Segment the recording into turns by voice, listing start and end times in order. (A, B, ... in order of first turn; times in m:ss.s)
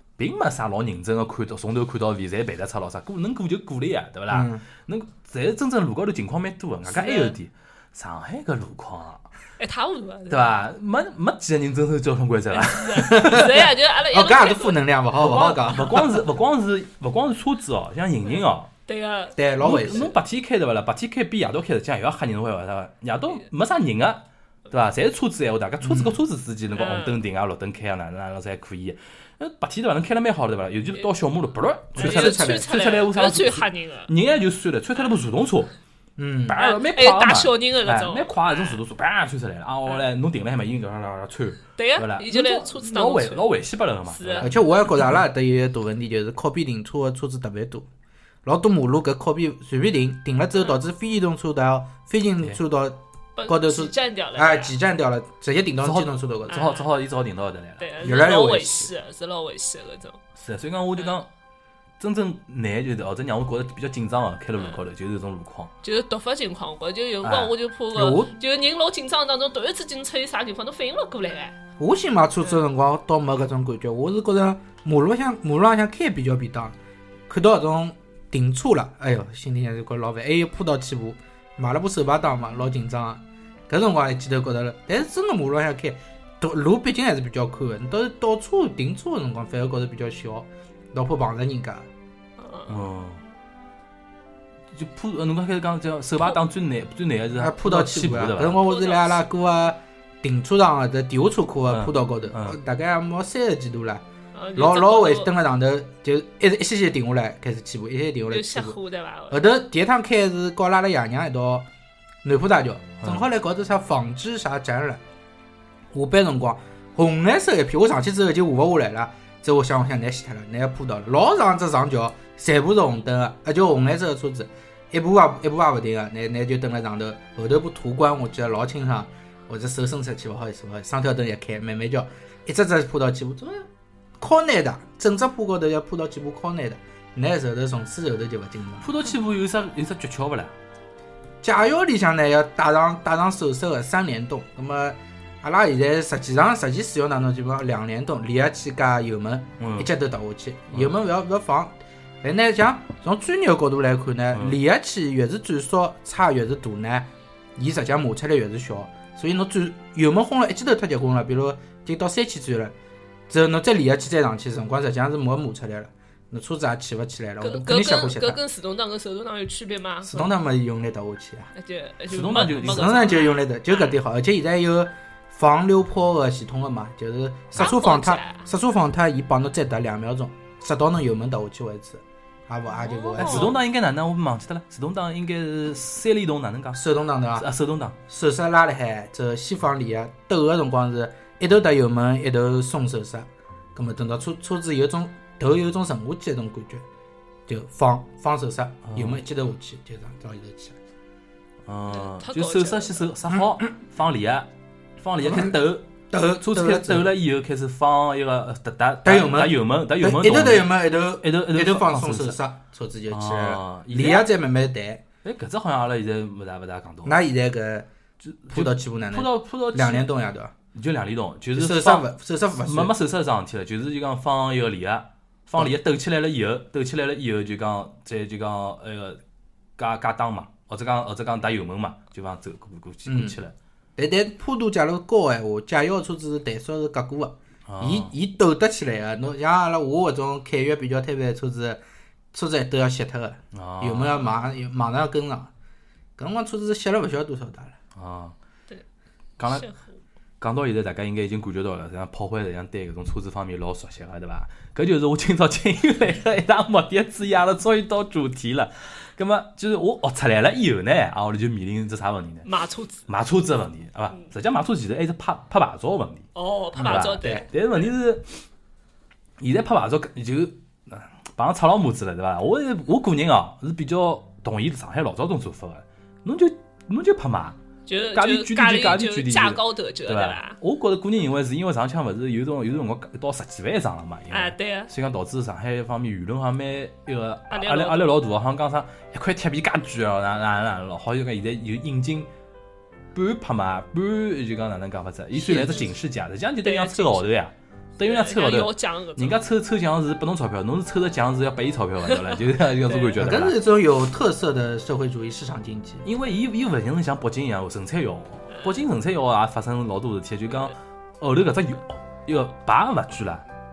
0:00.2-0:09.2 A
0:04.3-0:04.6 B
0:06.8-0:07.4 C
0:09.6-0:10.5 C
0:10.3-0:13.4 A
0:12.5-0:14.8 C
0:13.1-0:16.2 B
0:15.2-0:18.7 A
0:18.3-0:19.4 C
0:19.4-0:20.1 B
0:19.6-0:35.7 A
0:25.8-0:26.2 B
0:26.7-0:27.2 C
0:32.0-0:32.7 B
0:32.0-0:34.1 C
0:36.2-0:36.6 B
0:36.5-0:44.5 A
0:36.6-0:38.8 C
0:41.8-0:43.5 C
0:44.1-0:44.6 C
0:44.4-0:47.9 B
0:48.4-0:56.6 B
0:53.4-0:54.8 C
0:55.8-0:57.9 A
0:56.5-0:56.9 C
0:57.8-1:00.2 C
0:58.0-0:58.9 B
1:00.4-1:01.3 A
1:02.0-1:05.7 A
1:05.8-1:11.5 C
1:07.2-1:07.5 A
1:07.9-1:08.3 B
1:11.8-1:16.8 B
1:17.3-1:31.9 B
1:32.4-1:32.7 C
1:32.7-1:33.2 A
1:34.7-1:38.6 A
1:37.4-1:44.0 B
1:38.6-1:39.2 C
1:41.7-1:42.6 A
1:44.3-1:45.3 C
1:44.5-1:48.8 B
1:48.3-1:49.4 C
1:49.3-1:51.7 B
1:52.2-1:55.0 B
1:55.9-2:13.6 B
2:14.2-2:18.9 B
2:18.8-2:20.5 A
2:21.4-2:42.7 B
2:29.6-2:29.9 A
2:34.3-2:34.6 A
2:43.3-2:48.4 B
2:47.4-2:50.2 C
2:50.0-2:51.5 B
2:51.5-2:54.0 C
2:52.1-2:53.1 A
2:52.4-3:03.5 B
2:57.6-2:58.4 C
3:02.7-3:03.5 C
3:03.2-3:06.8 A
3:06.7-3:07.5 B
3:07.3-3:08.0 A
3:08.1-3:16.8 B
3:17.5-3:20.8 B
3:18.8-3:19.2 A
3:21.6-3:24.5 A
3:21.9-3:23.1 C
3:23.3-3:23.6 B
3:25.0-3:32.4 A
3:25.2-3:25.6 B
3:26.1-3:27.1 B
3:29.0-3:35.0 B
3:33.1-3:34.3 A
3:35.2-3:37.2 A
3:37.0-3:37.9 B
3:38.2-3:40.0 A
3:38.5-3:40.5 B
3:40.7-3:49.2 A
3:41.5-3:42.9 B
3:49.8-3:53.5 A
3:53.0-3:53.4 B
3:54.0-4:01.8 B
3:57.7-3:58.1 A
4:02.3-4:05.5 B
4:03.5-4:04.2 A
4:06.2-4:07.8 B
4:07.9-4:08.4 A
4:09.4-4:09.6 A
4:09.5-4:09.9 C
4:10.4-4:22.5 A
4:22.4-4:23.1 C
4:23.1-4:26.3 A
4:26.3-4:27.8 C
4:26.7-4:27.4 B
4:26.8-4:28.4 A
4:29.4-4:37.6 A
4:37.9-4:40.6 C
4:38.1-4:52.3 A
4:44.3-4:44.9 C
4:47.5-4:48.2 C
4:53.1-5:03.6 A
4:55.3-4:55.9 B
4:56.6-4:57.3 C
4:58.0-4:59.4 C
5:02.1-5:03.1 C
5:03.2-5:06.0 B
5:06.0-5:13.4 A
5:08.5-5:08.8 C